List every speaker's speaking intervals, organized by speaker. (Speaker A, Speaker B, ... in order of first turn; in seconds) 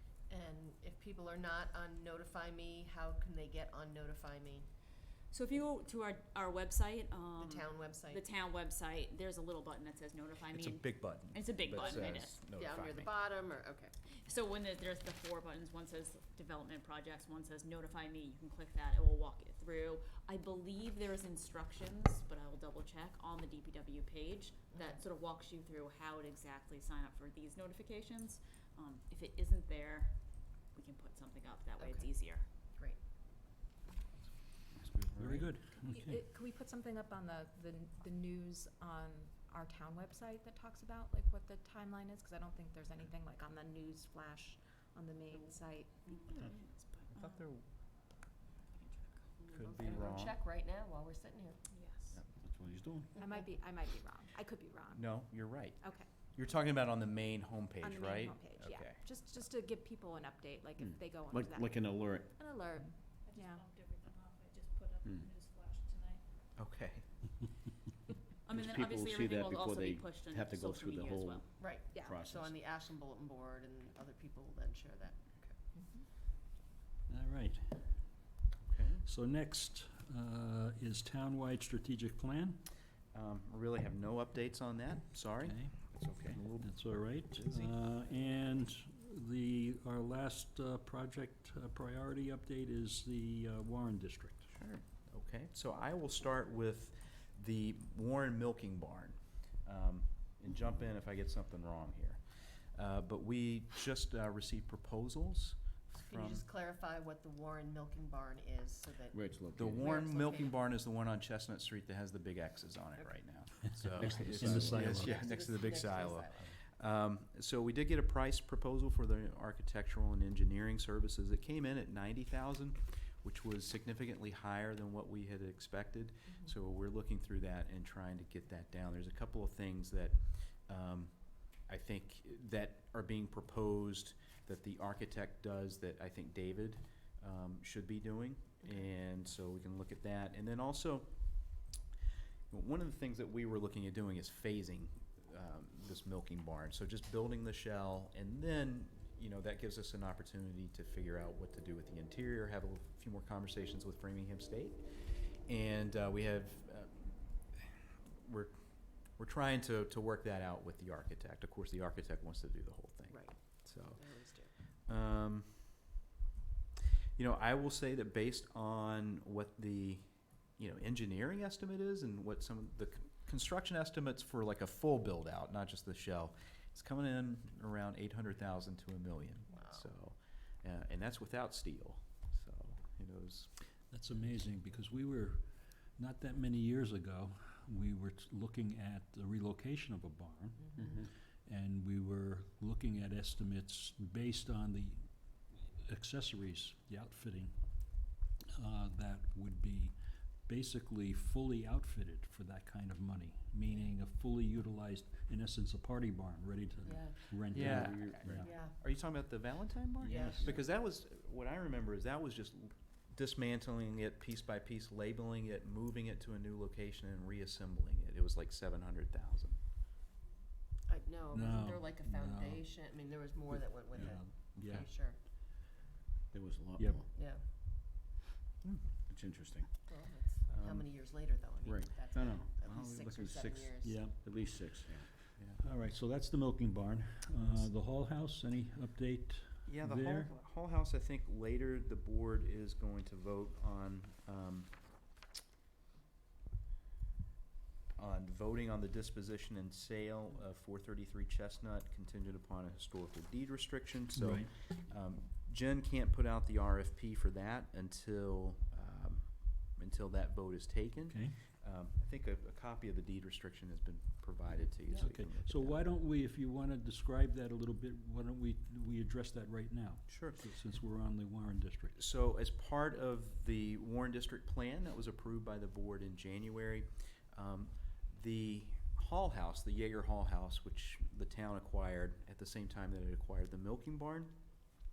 Speaker A: 0.3-4.7, 7.4-8.2, 11.8-13.9, 31.8-32.1, 46.1-46.4, 49.4-51.6, 53.2-53.5, 71.6-75.6, 106.1-110.5, 114.6-116.6, 163.1-163.4, 163.9-164.5, 206.8-207.3, 208.4-208.8, 210.0-210.5, 220.9-225.2, 227.1-227.4, 229.9-234.1
Speaker B: 5.3-12.3, 14.2-30.1, 30.7-32.5, 46.1-47.5, 48.7-49.2, 51.7-52.2, 68.5-71.5
Speaker C: 10.5-13.1, 47.1-47.6, 49.5-50.4, 54.9-59.0, 66.6-67.1, 78.6-79.1, 83.1-87.9, 94.5-106.5, 109.5-141.6, 142.5-156.9, 157.5-158.5, 159.2-164.1, 164.9-165.8, 167.2-170.1, 170.6-183.5, 207.5-219.6, 228.6-228.9, 230.5-230.9, 237.4-237.7, 239.7-244.7, 248.0-265.9, 270.1-270.5, 271.9-284.4
Speaker D: 34.8-35.5, 52.4-53.2, 60.8-62.4, 68.5-72.6, 109.1-110.0, 114.0-114.9, 190.8-191.1, 207.7-208.5, 210.0-210.6, 226.3-227.1, 229.1-229.7, 231.6-235.1
Speaker E: 35.1-36.2, 77.1-77.8, 79.0-82.7, 85.4-94.5, 114.0-115.2, 183.9-185.4, 186.0-197.5, 198.5-208.5, 221.3-222.6, 223.5-224.9, 226.8-227.1, 233.8-234.3, 235.6-240.3, 254.1-254.5, 261.1-261.4, 265.0-272.0
Speaker F: 35.9-46.1, 53.2-55.2, 55.8-56.1, 57.8-63.6, 71.9-72.2, 75.8-76.1
Speaker G: 63.3-66.2